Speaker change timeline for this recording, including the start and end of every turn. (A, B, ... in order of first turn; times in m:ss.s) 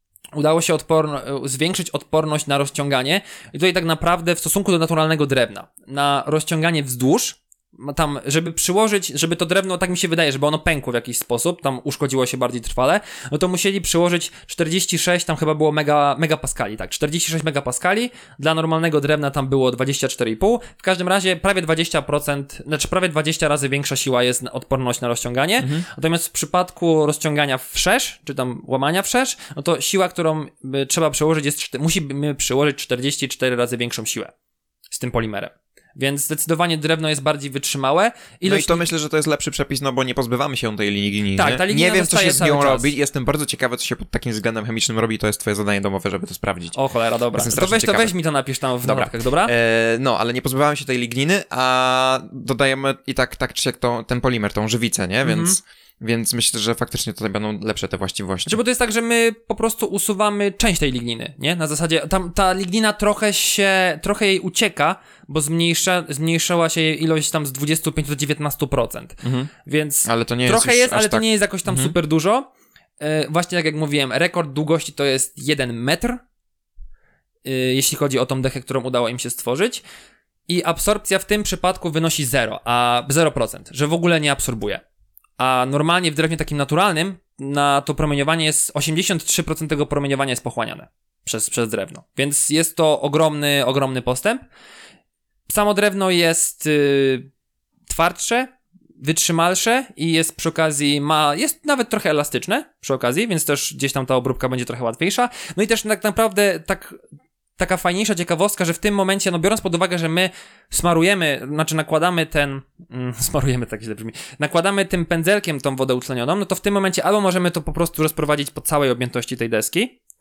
0:00.4-0:34.3 A
0:25.6-0:25.9 B
0:34.9-0:38.9 A
0:38.4-0:46.8 B
0:41.4-0:42.9 A
0:46.8-0:49.5 A
0:47.3-0:48.2 B
0:48.8-0:58.6 B
0:55.2-0:55.6 A
0:58.5-1:12.5 A
1:09.2-1:09.5 B
1:10.1-1:11.9 B
1:13.0-1:16.2 A
1:17.4-1:19.8 A
1:20.5-1:24.8 A
1:25.4-1:34.4 A
1:35.5-1:37.3 A
1:37.9-1:47.0 A
1:47.6-2:00.0 A